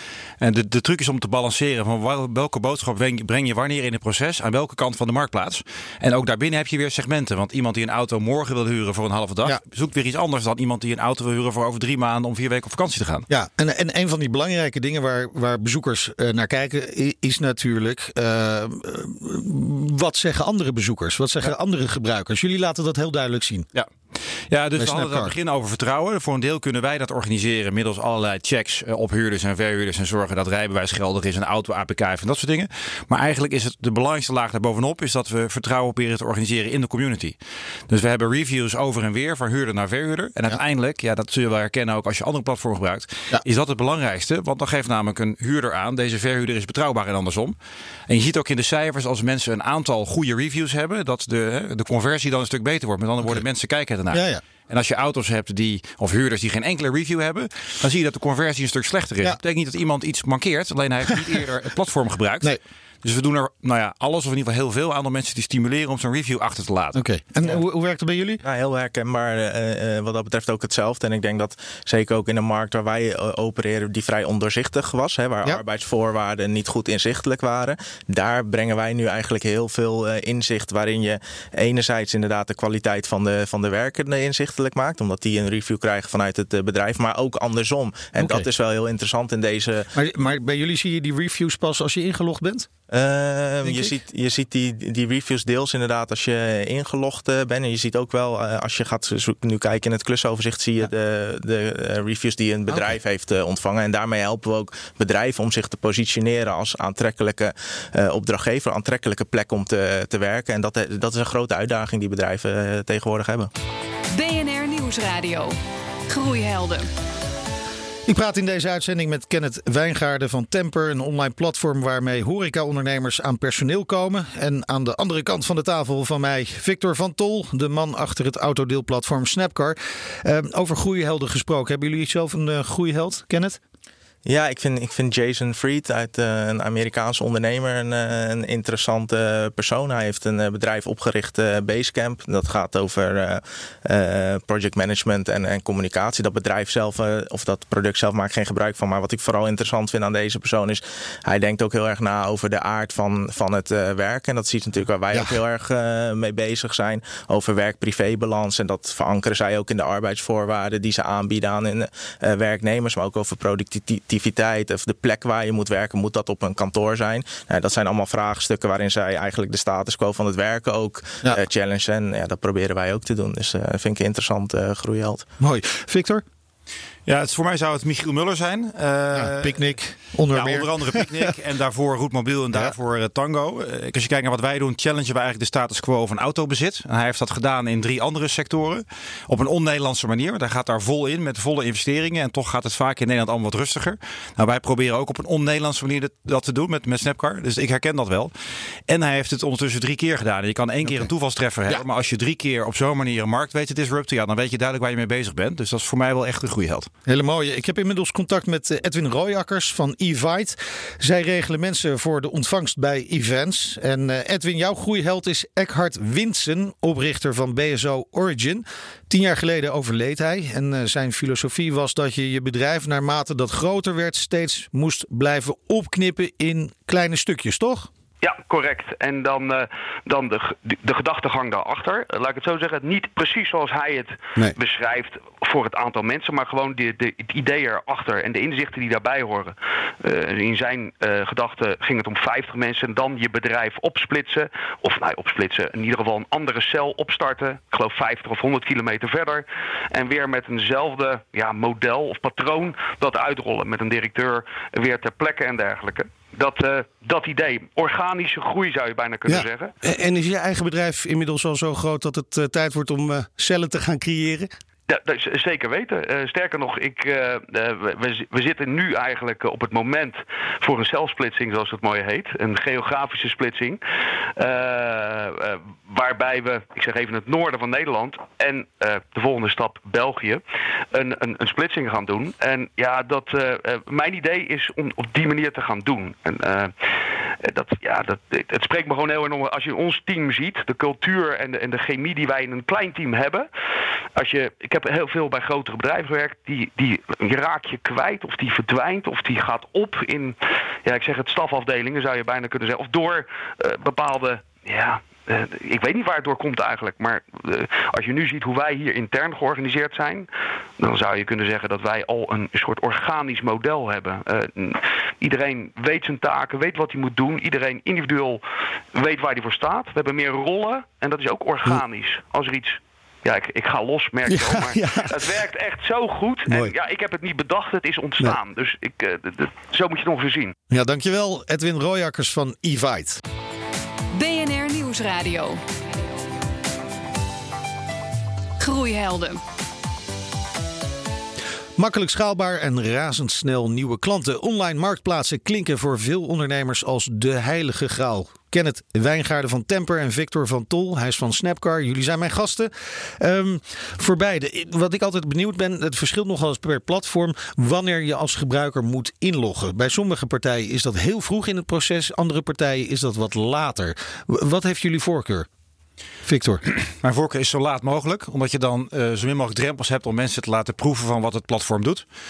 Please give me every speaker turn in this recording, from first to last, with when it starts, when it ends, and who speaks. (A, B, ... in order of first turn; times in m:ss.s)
0:00.4-0:13.3 A
0:13.3-0:23.7 B
0:24.5-0:37.4 A
0:24.8-0:25.3 B
0:37.9-0:47.6 A
0:48.1-1:07.0 A
0:54.1-0:54.4 B
1:07.0-1:08.4 B
1:08.4-1:29.9 C
1:28.2-1:28.5 B
1:29.9-1:32.7 B
1:32.9-1:53.5 C
1:33.6-1:33.9 B
1:54.1-1:55.6 D
1:56.1-1:56.9 D
1:58.1-2:13.6 B
2:14.2-2:55.3 C
2:55.4-2:56.2 B
2:57.1-2:59.7 A
2:59.1-3:01.3 B
3:00.3-3:18.3 A
3:18.9-3:26.9 A
3:27.1-3:47.9 B
3:48.2-4:19.7 E
4:19.3-4:24.5 B
4:24.9-4:33.8 E
4:34.4-4:40.4 E
4:40.9-4:46.7 E
4:47.4-4:53.5 E
4:54.2-5:18.4 E
5:18.9-5:30.5 E
5:24.3-5:25.2 B
5:26.5-5:26.7 B
5:30.7-5:33.2 B
5:34.1-5:35.6 D
5:38.6-5:39.4 D
5:41.8-6:05.5 B
6:06.3-6:06.6 B
6:06.7-6:12.0 A